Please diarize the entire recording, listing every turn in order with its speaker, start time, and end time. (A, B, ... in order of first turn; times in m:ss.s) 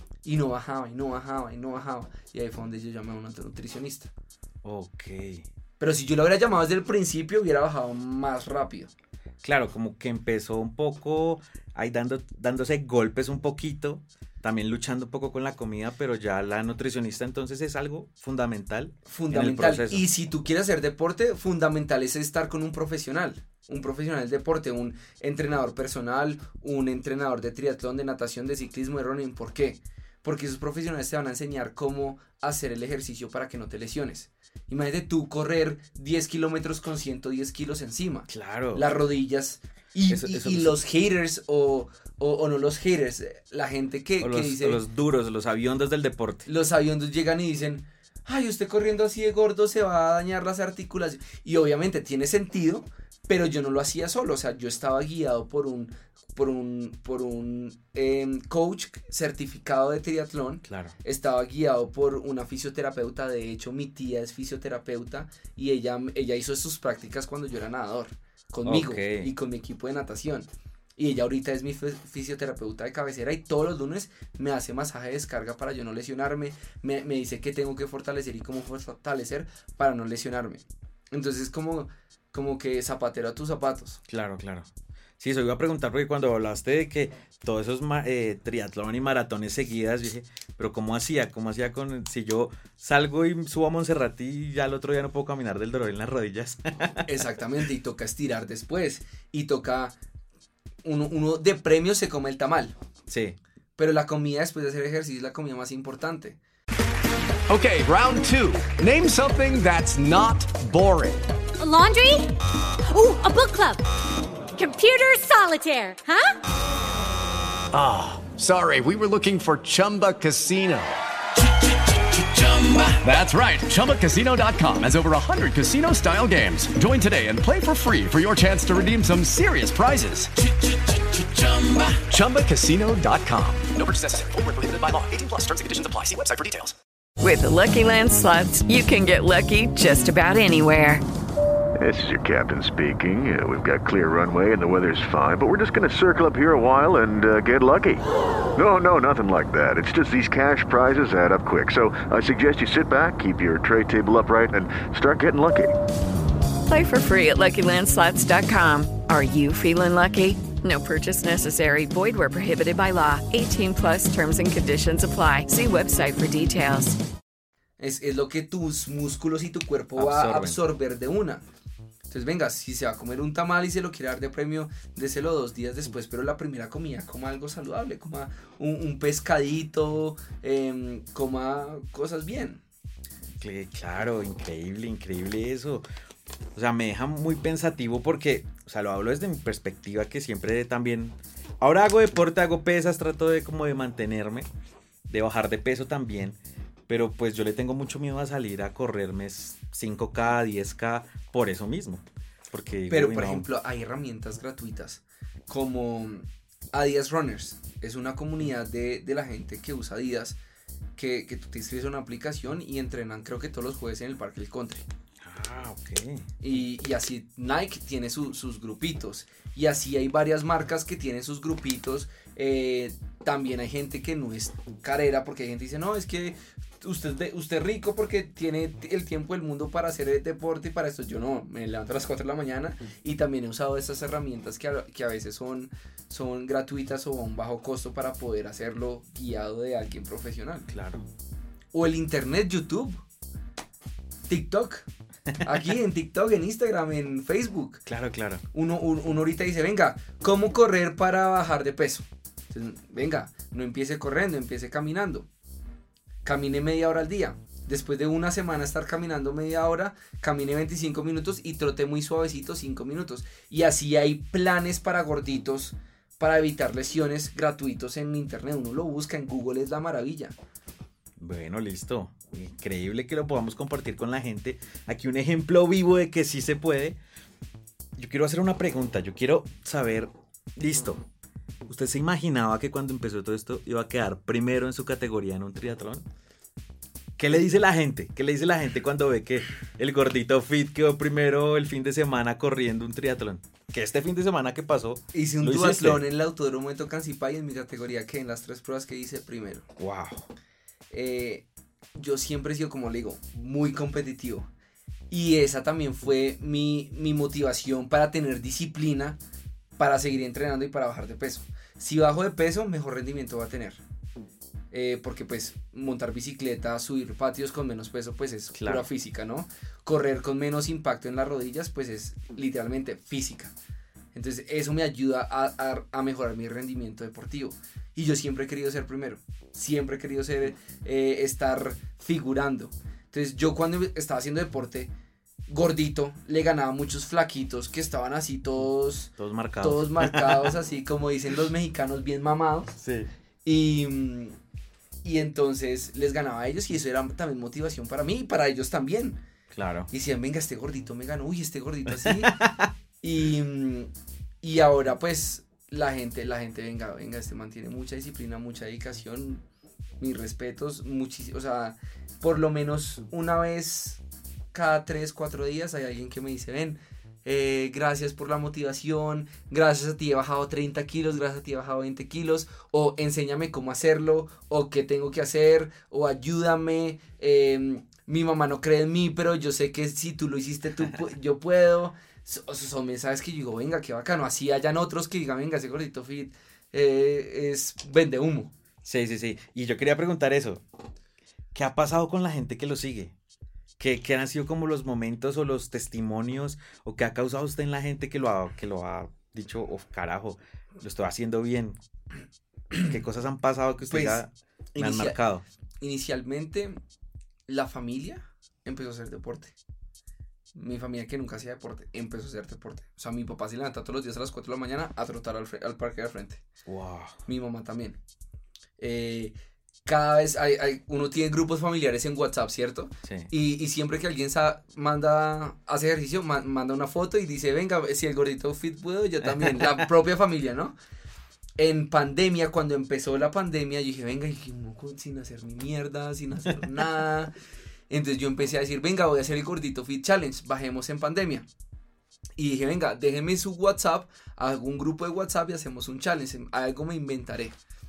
0:00.2-0:04.1 A
0:04.6-0:05.4 B
0:05.8-0:08.9 A
0:09.4-0:20.0 B
0:19.1-0:44.8 A
0:38.3-0:38.8 B
0:40.1-0:40.8 B
0:44.2-0:46.4 B
0:46.4-1:24.0 A
1:00.6-1:00.9 B
1:08.6-1:09.3 B
1:24.1-1:24.7 B
1:25.2-1:37.1 B
1:37.0-1:40.0 A
1:40.8-1:42.7 A
1:43.1-1:43.4 B
1:43.8-1:46.4 A
1:47.5-1:51.2 C
1:51.6-1:52.3 D
1:52.9-1:53.8 D
1:54.5-1:56.3 D
1:57.7-2:00.9 C
2:02.3-2:10.3 C
2:11.4-2:13.6 C
2:13.7-2:16.8 E
2:17.2-2:21.0 F
2:21.8-2:28.0 G
2:28.5-2:35.7 G
2:36.7-2:47.0 F
2:47.8-2:51.4 A
2:50.0-2:50.6 B
2:52.1-3:02.6 A
3:03.4-3:05.9 B
3:06.5-3:14.4 B
3:15.1-3:23.5 B
3:22.9-3:30.4 A
3:31.0-3:34.8 A
3:35.2-3:36.2 B
3:36.4-4:00.7 A
4:00.7-4:01.0 B
4:01.7-4:03.0 A
4:04.3-4:04.8 A
4:05.3-4:05.7 B
4:05.4-4:07.8 A
4:07.8-4:08.4 B
4:08.5-4:15.3 A
4:16.2-4:30.3 A
4:31.2-4:37.0 B
4:38.0-4:41.0 B
4:41.7-4:46.0 B
4:47.2-4:56.0 B
4:55.1-4:59.6 A
4:59.8-5:00.3 B
5:00.9-5:04.5 A
5:05.1-5:09.2 A
5:09.8-5:13.8 A
5:14.7-5:23.5 A
5:18.5-5:18.9 B
5:24.1-5:34.9 A
5:35.5-5:42.8 A
5:39.2-5:40.5 B
5:42.8-5:43.1 B
5:43.4-5:44.4 A
5:45.0-5:49.2 A
5:49.5-5:49.9 B
5:49.9-5:52.3 A
5:51.9-5:52.7 B
5:53.0-5:53.9 A
5:54.4-5:59.4 A
6:00.0-6:04.0 A
6:04.5-6:28.5 A
6:28.8-6:30.6 B
6:31.5-6:33.1 B
6:33.8-6:41.8 B
6:42.8-6:45.4 B
6:43.9-6:44.2 A
6:44.7-6:45.2 A
6:45.8-6:46.8 A
6:47.5-6:49.5 A
6:50.5-6:56.4 A
6:56.6-6:57.2 B
6:57.3-6:58.0 A
6:58.8-6:59.3 A
6:59.8-7:10.7 A
7:03.0-7:03.3 B
7:09.4-7:09.8 B
7:11.6-7:17.3 A
7:17.9-7:21.4 A
7:22.4-7:27.6 A